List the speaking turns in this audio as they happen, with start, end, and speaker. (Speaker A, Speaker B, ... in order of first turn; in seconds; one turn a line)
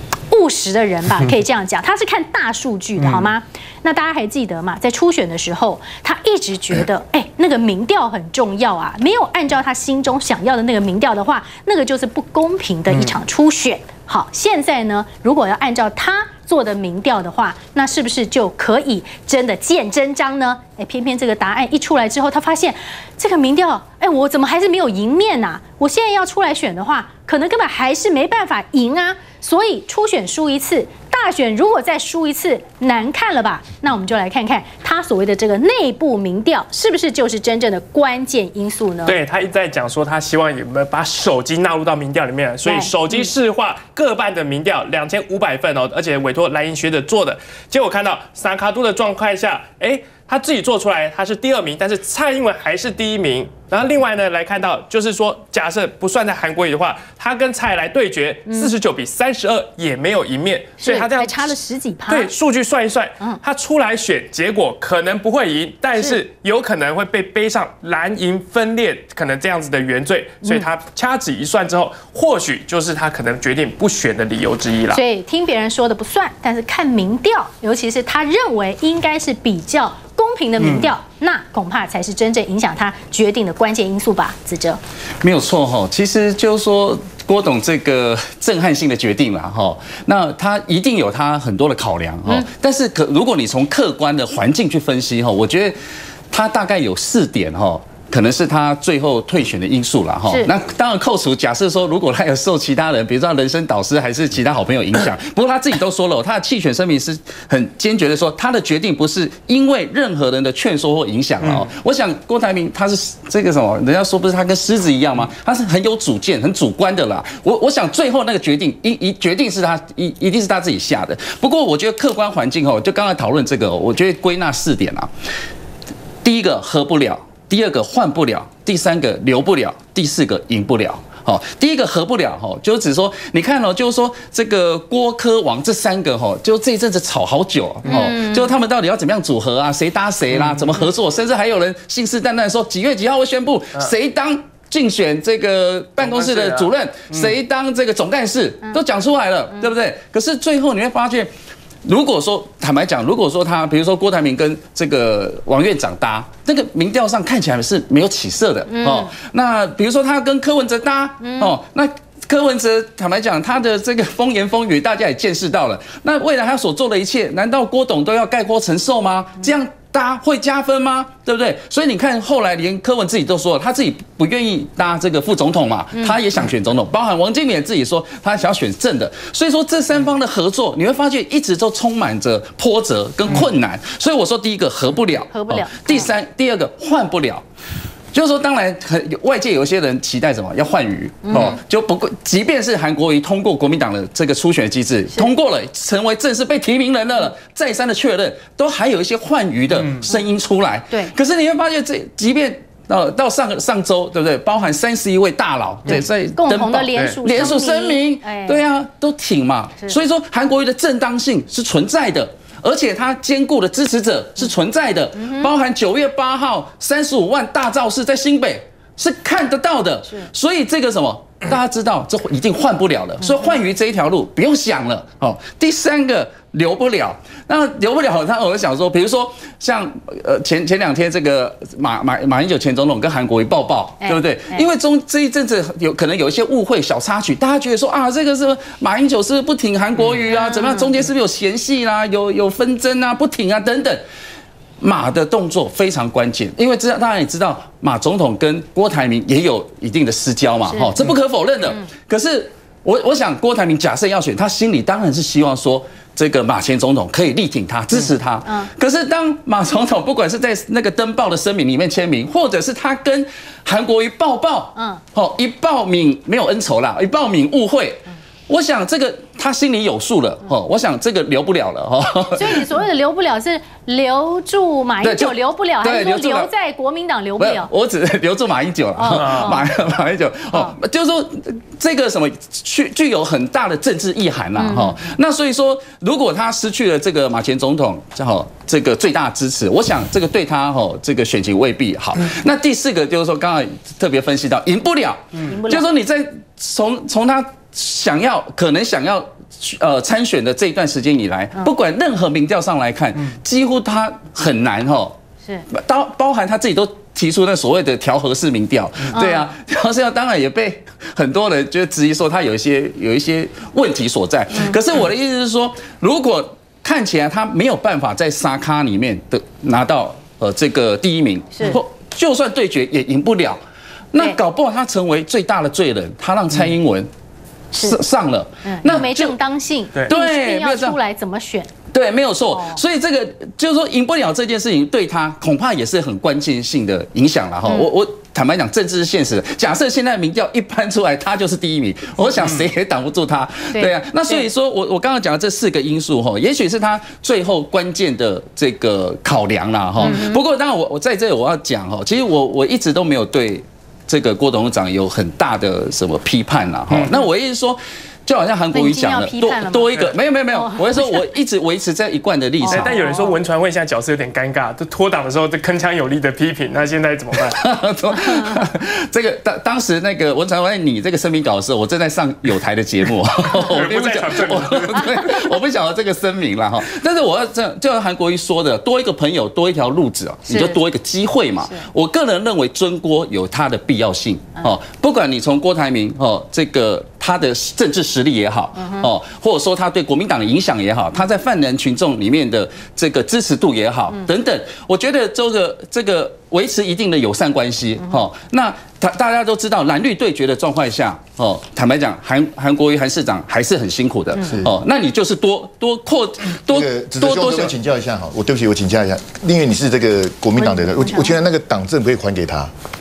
Speaker A: 0.3-39.2
Speaker B: 39.0-61.5
Speaker A: 42.6-43.3
Speaker A: 58.5-58.7
Speaker A: 60.8-62.3
Speaker B: 62.1-75.0
Speaker A: 70.4-70.7
Speaker A: 74.9-84.8
Speaker B: 80.6-80.9
Speaker C: 85.2-95.8
Speaker C: 96.3-125.1
Speaker C: 126.2-151.3
Speaker A: 137.9-138.6
Speaker B: 140.4-140.7
Speaker B: 146.0-147.3
Speaker C: 151.8-187.4
Speaker A: 158.7-159.1
Speaker A: 161.2-161.5
Speaker A: 185.3-186.1
Speaker C: 188.1-244.0
Speaker A: 191.2-191.6
Speaker A: 206.4-208.6
Speaker A: 215.2-215.5
Speaker A: 223.3-223.5
Speaker A: 234.0-234.6
Speaker A: 240.3-241.0
Speaker C: 244.8-272.7
Speaker A: 250.7-251.1
Speaker A: 258.4-258.7
Speaker A: 264.8-265.0
Speaker A: 272.4-277.7
Speaker C: 275.0-276.5
Speaker C: 277.4-305.1
Speaker A: 279.0-279.7
Speaker B: 279.1-279.5
Speaker A: 284.6-285.0
Speaker A: 295.5-295.9
Speaker C: 305.7-323.6
Speaker A: 309.1-309.4
Speaker C: 324.1-327.1
Speaker A: 327.7-328.0
Speaker C: 327.8-329.4
Speaker A: 328.6-331.7
Speaker C: 330.0-331.0
Speaker C: 331.9-363.0
Speaker A: 332.5-332.8
Speaker A: 337.6-337.9
Speaker B: 342.4-342.6
Speaker A: 343.7-344.4
Speaker A: 350.0-350.4
Speaker B: 356.9-357.2
Speaker A: 358.7-361.2
Speaker A: 362.6-363.4
Speaker B: 362.7-367.6
Speaker C: 367.4-407.8
Speaker A: 368.2-368.6
Speaker B: 373.6-375.1
Speaker A: 375.1-375.5
Speaker A: 380.5-380.8
Speaker A: 388.8-389.1
Speaker D: 406.6-412.7
Speaker A: 410.6-411.4